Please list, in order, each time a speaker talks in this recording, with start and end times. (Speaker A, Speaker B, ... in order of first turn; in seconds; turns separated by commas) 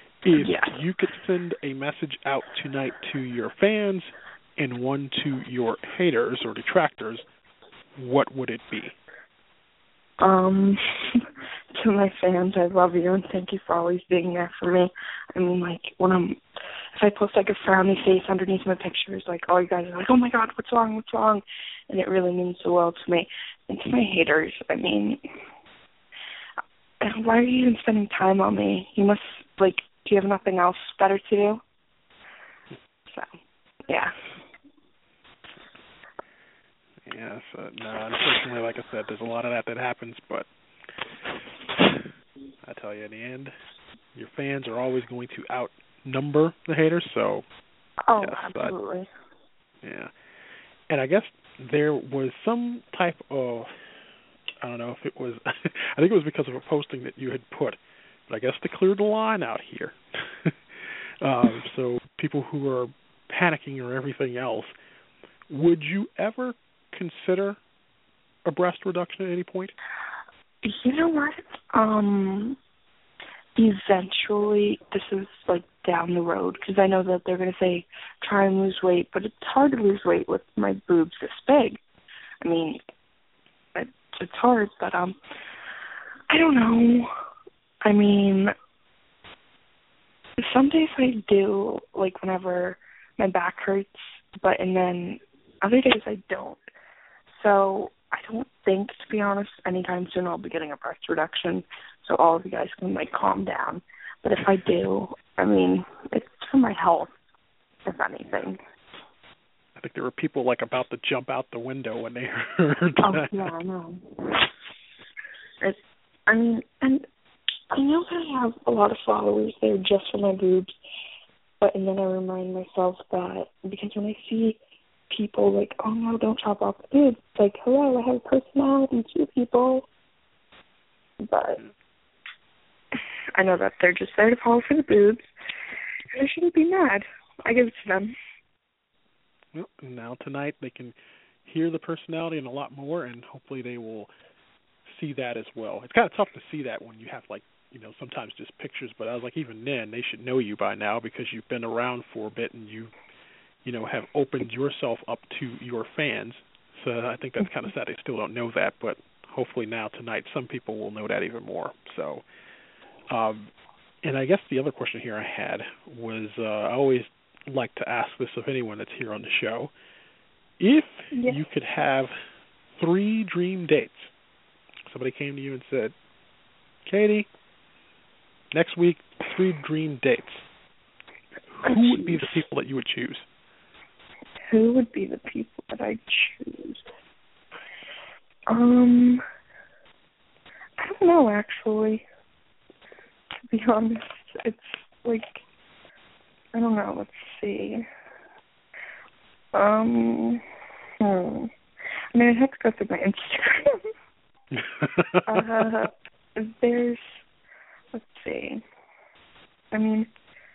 Speaker A: 0.2-7.2, Speaker B: 0.3-0.8, Speaker A: 8.0-8.9, Speaker B: 10.2-16.4, Speaker B: 16.9-25.2, Speaker B: 27.0-31.6, Speaker B: 33.9-34.3, Speaker A: 37.0-40.5, Speaker A: 41.7-42.1, Speaker A: 42.6-43.5, Speaker A: 44.1-47.4, Speaker B: 48.1-49.1, Speaker A: 48.2-48.7, Speaker A: 49.8-50.1, Speaker A: 50.9-53.8, Speaker A: 54.6-64.7, Speaker A: 65.5-67.6, Speaker A: 68.4-69.7, Speaker B: 70.6-72.6, Speaker B: 73.5-81.8, Speaker B: 82.4-82.8, Speaker B: 83.7-85.2, Speaker B: 86.3-87.1, Speaker B: 87.8-88.5, Speaker B: 90.4-96.6, Speaker B: 97.3-107.1, Speaker B: 107.8-108.6, Speaker A: 109.8-113.5, Speaker B: 113.0-114.5, Speaker B: 116.3-117.0, Speaker B: 117.7-120.7, Speaker B: 121.6-124.6, Speaker B: 125.1-129.9, Speaker B: 131.2-131.6, Speaker B: 133.3-135.3, Speaker B: 136.1-138.2, Speaker A: 139.5-144.1, Speaker A: 144.8-152.9, Speaker A: 153.6-162.2, Speaker A: 163.1-163.5, Speaker A: 164.0-169.7, Speaker A: 170.6-172.1, Speaker B: 171.1-171.4, Speaker A: 172.8-174.1, Speaker A: 174.8-175.9, Speaker A: 176.8-177.3, Speaker A: 178.5-180.4, Speaker A: 181.5-183.2, Speaker B: 181.6-182.4, Speaker B: 184.5-186.8, Speaker B: 188.5-189.2, Speaker B: 190.8-192.0, Speaker B: 193.4-195.4, Speaker B: 196.5-197.8, Speaker B: 199.5-200.4, Speaker B: 201.0-201.5, Speaker B: 202.1-203.8, Speaker A: 204.5-205.4, Speaker B: 205.2-207.2, Speaker B: 207.9-208.6, Speaker B: 209.7-210.1